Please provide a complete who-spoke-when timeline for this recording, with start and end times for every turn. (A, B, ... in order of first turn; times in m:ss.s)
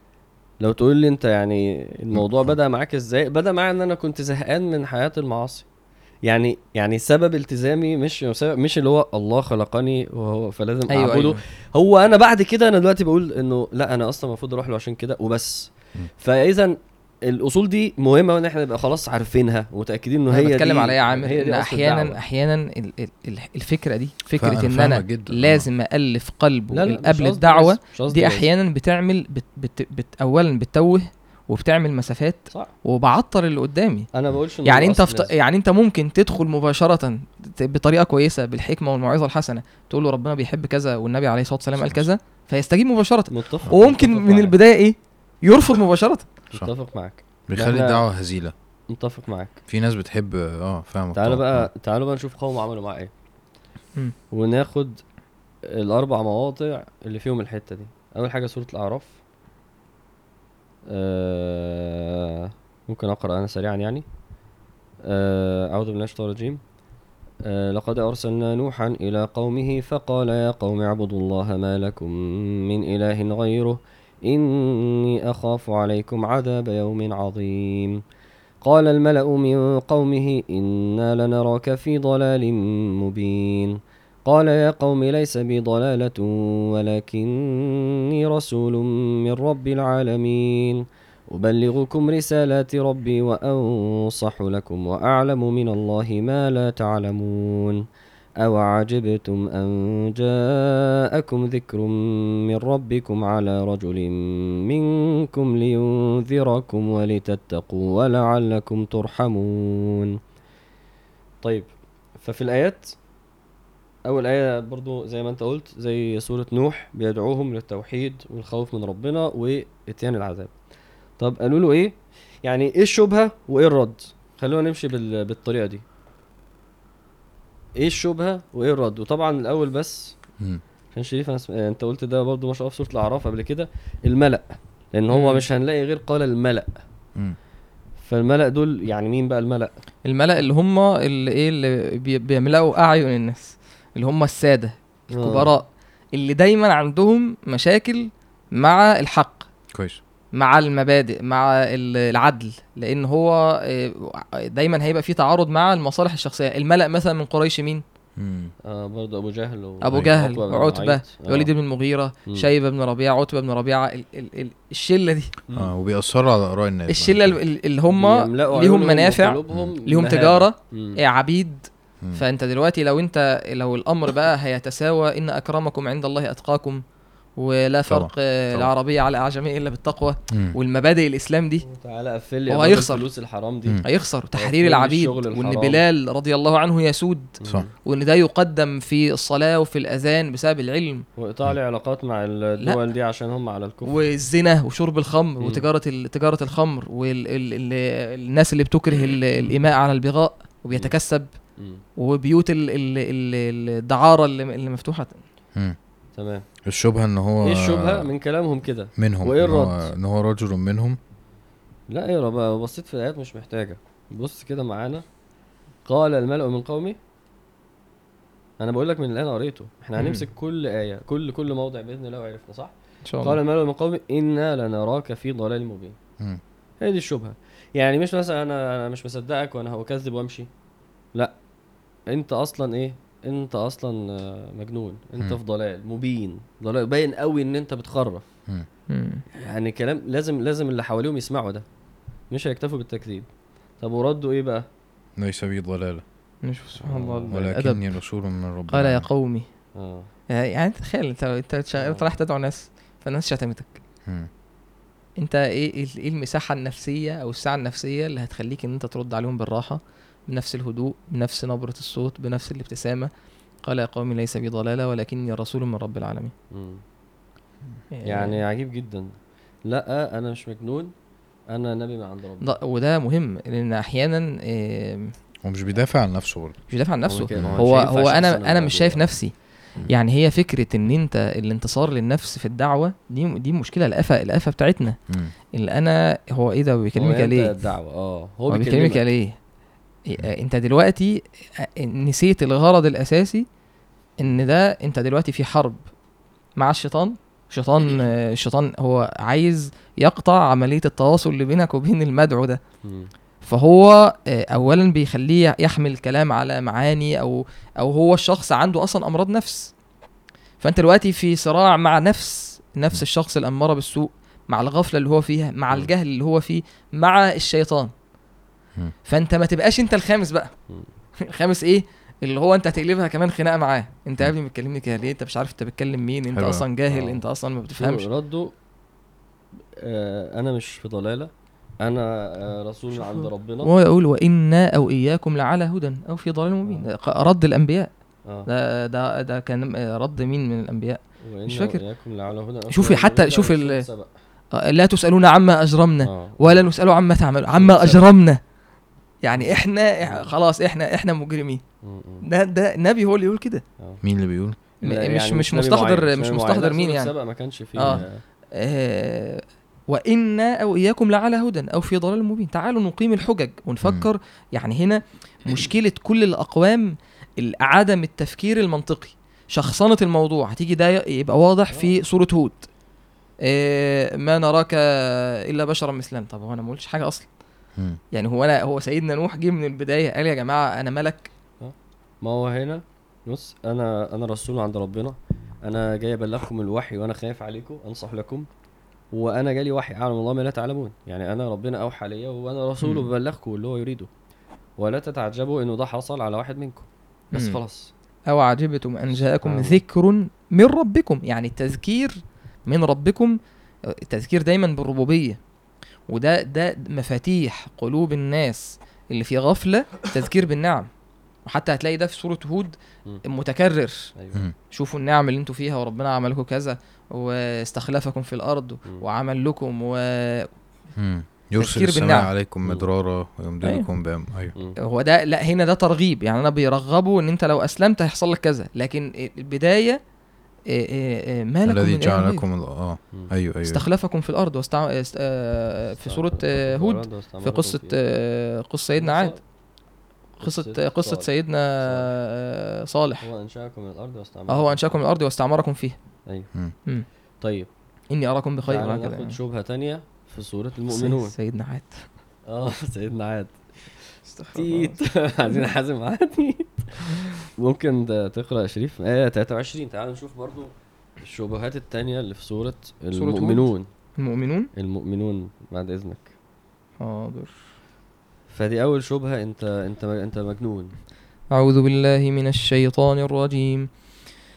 0:00.6-0:05.6 A
0:02.1-0:02.5 B
0:06.2-0:22.2 A
0:10.9-0:11.4 C
0:20.3-0:34.1 C
0:24.3-0:25.6 B
0:26.7-0:28.5 A
0:34.1-0:35.3 A
0:34.6-0:46.3 C
0:41.8-0:42.1 B
0:43.3-0:44.5 A
0:46.5-0:48.0 A
0:47.5-0:48.5 B
0:48.9-0:49.5 A
0:49.7-0:51.7 B
0:51.1-0:53.1 A
0:54.3-0:55.0 A
0:55.6-0:59.1 A
1:00.9-1:04.0 A
1:05.0-1:06.6 A
1:07.4-1:18.0 A
1:18.6-1:37.8 A
1:38.4-1:50.2 A
1:52.2-1:52.9 A
1:54.0-2:00.5 A
2:01.2-2:05.8 A
2:07.7-2:10.1 A
2:10.9-2:14.4 A
2:14.9-2:16.7 A
2:15.1-2:15.4 C
2:18.0-2:19.7 A
2:20.0-2:29.5 C
2:25.1-2:25.5 A
2:29.7-2:30.0 B
2:30.3-2:37.8 C
2:38.2-2:38.5 B
2:38.6-2:41.5 A
2:39.8-2:45.3 C
2:45.5-2:47.4 B
2:46.9-2:56.8 C
2:47.9-2:51.0 A
2:57.4-3:01.6 C
2:57.9-2:58.7 B
3:01.6-3:03.8 A
3:02.5-3:03.0 C
3:03.8-3:11.0 C
3:04.3-3:05.8 A
3:07.4-3:07.7 A
3:11.2-3:14.0 A
3:13.9-3:21.3 C
3:15.4-3:15.6 A
3:22.0-3:25.2 C
3:26.1-3:26.4 A
3:26.6-3:28.1 B
3:27.4-3:29.9 A
3:29.0-3:31.0 B
3:31.9-3:35.0 A
3:35.8-3:37.0 A
3:38.6-3:46.0 A
3:40.0-3:40.2 C
3:43.0-3:43.4 C
3:46.8-3:50.5 A
3:52.1-3:58.2 A
3:58.9-3:59.2 C
3:59.3-4:01.6 A
4:02.3-4:03.3 A
4:03.8-4:04.6 A
4:05.2-4:06.0 B
4:06.4-4:07.8 C
4:06.8-4:07.4 A
4:07.3-4:09.1 B
4:08.7-4:09.5 C
4:09.7-4:10.1 A
4:10.3-4:13.8 C
4:11.8-4:12.0 A
4:15.2-4:23.1 C
4:23.6-4:26.3 C
4:26.5-4:26.8 A
4:27.9-4:28.4 C
4:28.0-4:29.1 A
4:29.6-4:30.9 A
4:31.5-4:32.5 A
4:32.4-4:35.1 C
4:35.4-4:36.6 B
4:36.7-4:39.3 C
4:37.1-4:39.1 A
4:37.3-4:37.7 B
4:39.9-4:45.0 C
4:45.5-4:47.5 C
4:47.0-4:49.0 A
4:48.5-4:49.4 C
4:50.0-4:53.4 C
4:54.2-4:55.8 C
4:56.6-5:02.6 C
5:02.8-5:03.1 A
5:03.4-5:09.7 C
5:10.6-5:17.9 C
5:19.1-5:20.5 C
5:21.2-5:28.0 C
5:26.3-5:26.6 B
5:26.9-5:27.2 A
5:27.7-5:28.5 A
5:29.8-5:33.7 A
5:33.0-5:37.9 C
5:38.5-5:41.8 C
5:41.2-5:44.1 A
5:42.7-5:43.8 C
5:44.6-5:48.4 C
5:46.0-5:46.7 A
5:47.5-5:48.1 A
5:49.2-5:51.6 C
5:49.4-5:50.3 A
5:51.8-5:52.2 A
5:52.2-5:53.6 C
5:54.0-5:54.6 B
5:54.8-5:58.2 A
5:54.8-5:57.1 C
5:57.8-6:12.7 C
6:13.4-6:17.3 C
6:18.1-6:21.3 C
6:21.6-6:28.5 A
6:29.1-6:34.1 A
6:32.8-6:33.0 C
6:34.8-6:37.9 A
6:37.3-6:37.6 C
6:38.3-6:43.4 C
6:39.4-6:39.8 A
6:44.0-6:45.4 C
6:46.1-6:50.9 C
6:51.4-6:54.1 C
6:54.2-6:54.4 A
6:54.7-7:00.5 C
7:01.0-7:04.5 B
7:01.6-7:02.3 C
7:04.8-7:10.0 C
7:10.7-7:12.4 C
7:11.7-7:13.8 B
7:13.6-7:19.4 C
7:16.0-7:18.0 A
7:19.0-7:19.4 A
7:20.4-7:21.3 A
7:20.4-7:23.3 C
7:21.8-7:22.1 A
7:23.2-7:24.9 A
7:24.5-7:26.0 C
7:27.4-7:27.7 A
7:28.1-7:29.4 C
7:28.7-7:31.3 A
7:30.9-7:32.1 C
7:32.5-7:43.9 A
7:34.3-7:35.0 C
7:43.1-7:44.7 C
7:44.7-7:46.3 A
7:47.0-7:47.6 C
7:48.5-7:50.9 A
7:51.5-7:53.9 C